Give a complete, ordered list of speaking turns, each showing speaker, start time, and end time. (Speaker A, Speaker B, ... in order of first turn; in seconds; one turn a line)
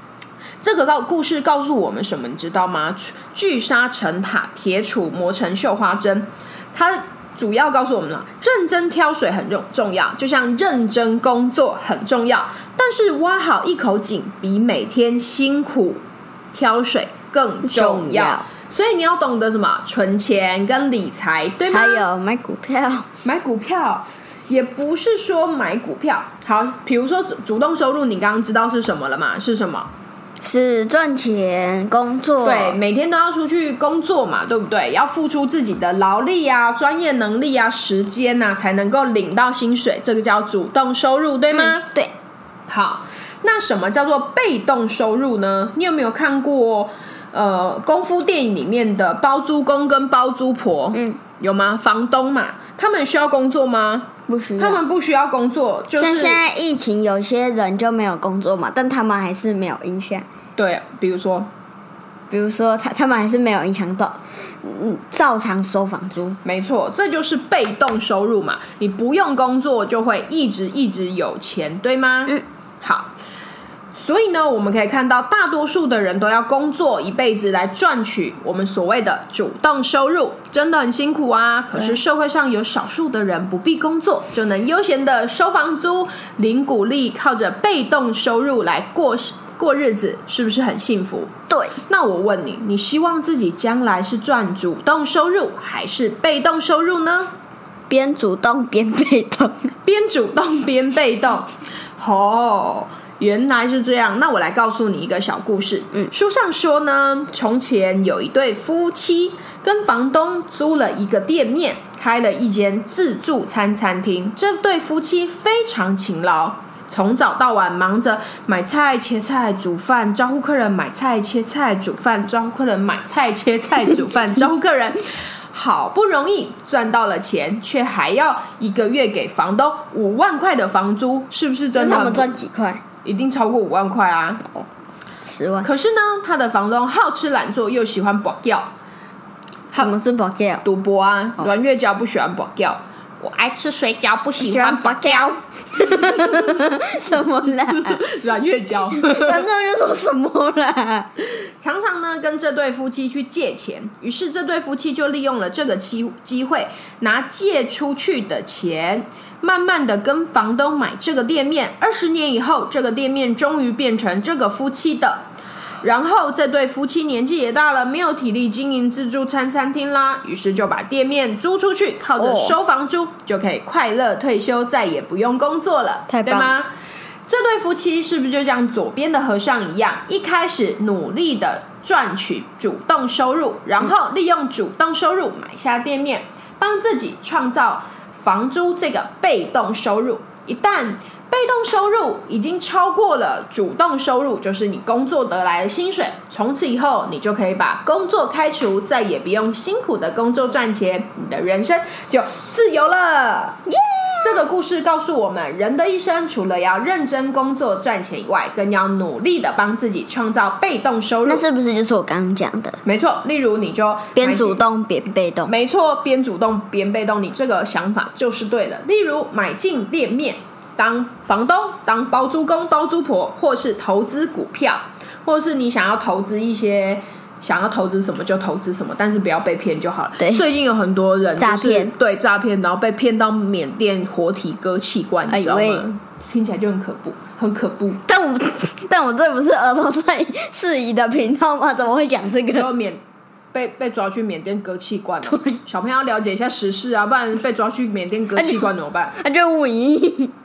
Speaker A: 0.6-16.0
Speaker A: 16.5-22.1
Speaker B: 17.6-18.4
Speaker B: 21.7-23.1
Speaker A: 23.2-29.9
Speaker B: 30.4-32.8
Speaker A: 32.4-41.9
Speaker B: 41.5-42.1
Speaker A: 42.7-56.4
Speaker B: 50.9-51.2
Speaker B: 54.3-54.8
Speaker B: 56.0-60.2
Speaker A: 60.6-61.5
Speaker B: 62.3-66.4
Speaker A: 66.4-73.1
Speaker A: 73.9-91.3
Speaker B: 91.5-91.8
Speaker A: 91.9-97.3
Speaker B: 97.9-99.7
Speaker A: 99.8-132.3
Speaker B: 131.7-132.8
Speaker A: 133.0-134.5
Speaker B: 135.2-135.7
Speaker A: 135.6-138.7
Speaker B: 139.7-140.6
Speaker A: 140.6-146.6
Speaker B: 144.4-148.0
Speaker A: 147.7-149.5
Speaker B: 149.0-151.1
Speaker A: 151.6-165.2
Speaker A: 165.8-176.7
Speaker B: 172.2-172.6
Speaker B: 176.1-176.5
Speaker A: 177.3-203.6
Speaker B: 203.7-204.4
Speaker A: 204.2-211.4
Speaker B: 211.2-212.8
Speaker A: 212.8-214.6
Speaker B: 214.2-215.5
Speaker A: 215.4-238.0
Speaker B: 230.2-230.4
Speaker B: 231.4-231.9
Speaker B: 235.3-235.8
Speaker B: 238.1-242.7
Speaker A: 242.5-243.0
Speaker A: 243.5-249.2
Speaker B: 245.2-245.6
Speaker B: 248.3-250.3